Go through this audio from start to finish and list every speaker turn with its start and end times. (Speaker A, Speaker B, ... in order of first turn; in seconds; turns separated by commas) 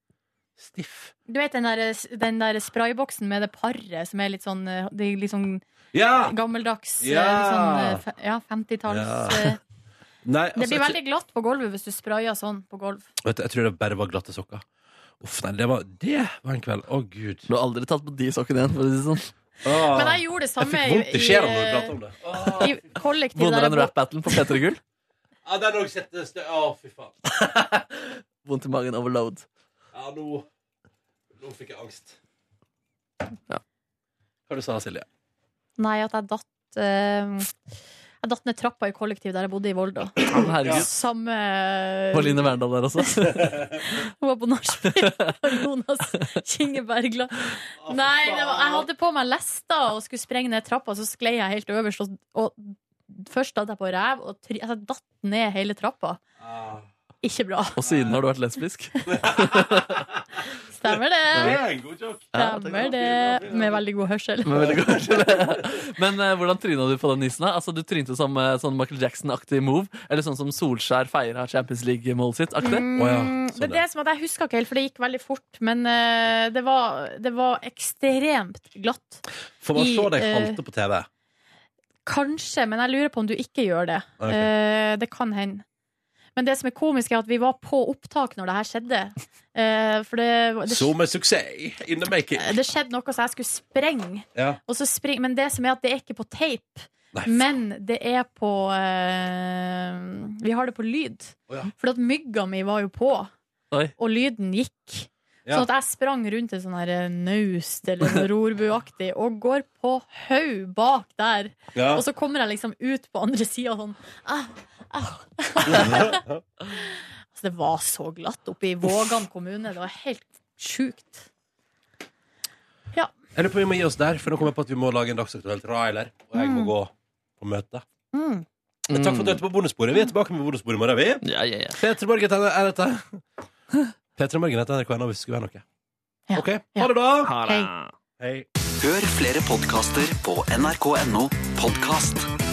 Speaker A: 0.6-1.1, Speaker B: 1.3-5.7, Speaker A: 5.9-6.3, Speaker B: 6.2-9.6, Speaker A: 7.0-8.0, Speaker A: 8.9-9.6, Speaker A: 10.2-11.0, Speaker B: 10.6-13.1, Speaker A: 13.2-14.7, Speaker A: 15.2-17.5, Speaker C: 17.5-19.3, Speaker A: 19.6-22.8, Speaker B: 19.9-22.0, Speaker B: 22.6-23.9, Speaker C: 23.4-24.8, Speaker A: 25.4-27.3, Speaker C: 27.3-29.5, Speaker A: 29.9-30.5, Speaker A: 31.4-32.2, Speaker A: 34.5-35.1, Speaker B: 35.8-37.5, Speaker B: 38.2-42.4, Speaker C: 40.3-40.9, Speaker A: 40.6-40.9, Speaker C: 42.1-43.7, Speaker B: 43.0-43.3, Speaker B: 43.8-56.2, Speaker C: 44.9-45.3, Speaker A: 47.8-48.9, Speaker A: 56.4-56.9, Speaker B: 57.2-57.8, Speaker C: 57.8-60.1, Speaker A: 57.8-58.2, Speaker A: 59.1-60.0, Speaker B: 60.7-61.6, Speaker A: 61.4-63.8, Speaker B: 62.3-64.7, Speaker C: 62.4-62.9, Speaker C: 64.5-72.9, Speaker A: 64.6-65.6, Speaker B: 72.6-79.2, Speaker A: 73.0-73.8, Speaker A: 79.6-81.1, Speaker B: 79.8-80.6, Speaker B: 82.1-85.6, Speaker A: 84.2-84.5, Speaker B: 86.4-90.9, Speaker A: 90.7-92.5, Speaker B: 92.4-103.3, Speaker A: 94.3-94.6, Speaker A: 97.1-97.4, Speaker B: 104.0-121.3, Speaker A: 111.8-112.0, Speaker A: 115.7-116.4, Speaker A: 123.3-127.8, Speaker B: 126.4-126.7, Speaker B: 128.1-128.4, Speaker C: 128.9-129.4, Speaker A: 128.9-133.2, Speaker C: 131.2-131.8, Speaker A: 134.2-135.6, Speaker B: 136.3-137.7, Speaker A: 136.3-137.3, Speaker C: 137.2-137.9, Speaker A: 138.2-138.5, Speaker D: 138.8-142.3